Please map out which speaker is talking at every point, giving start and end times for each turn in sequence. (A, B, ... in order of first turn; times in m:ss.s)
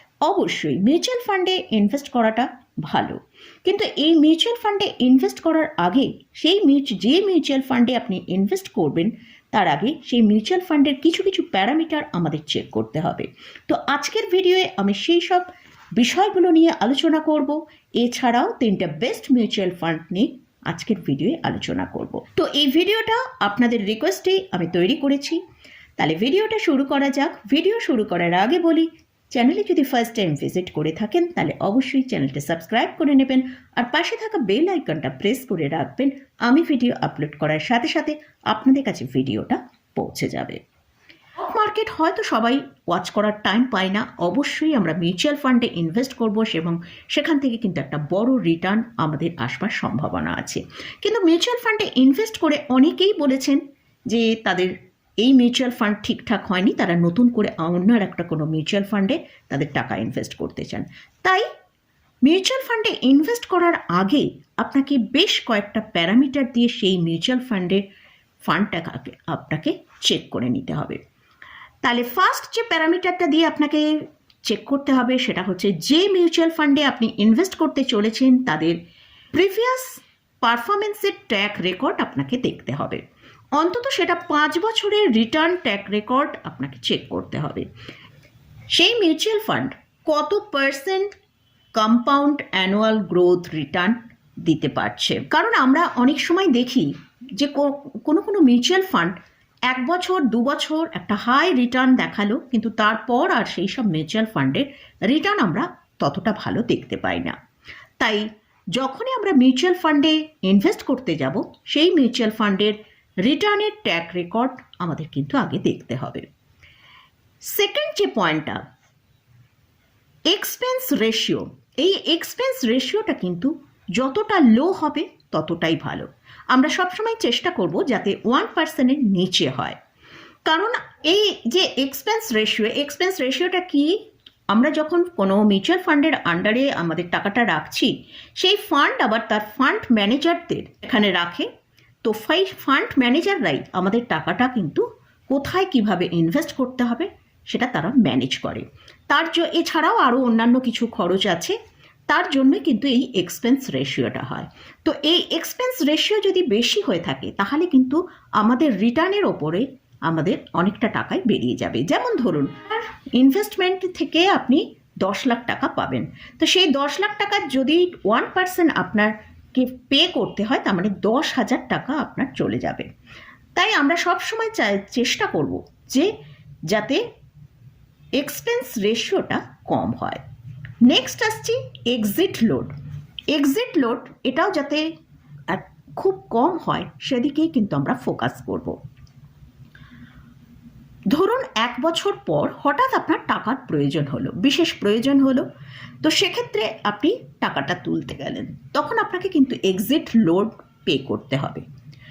0:00.2-0:25.4 A
0:26.0-0:40.6 A
0:41.4-1:01.4 A
1:02.2-1:07.8 A
1:08.4-1:11.0 A
1:11.8-1:18.8 A
1:19.3-1:23.0 A
1:23.5-1:27.7 A
1:28.7-1:31.1 A
1:31.7-1:39.1 A
1:39.7-1:47.3 A
1:48.0-1:56.2 A
1:57.5-1:58.6 A
2:00.3-2:09.8 A
2:10.4-2:13.9 A
2:14.5-2:21.5 A
2:22.0-2:31.5 A
2:32.1-2:52.9 A
2:53.6-2:56.1 A
2:56.7-2:57.0 A
2:58.2-3:00.2 A
3:00.8-3:02.7 A
3:03.3-3:04.8 A
3:05.5-3:08.7 A
3:11.1-3:15.5 A
3:16.0-3:21.6 A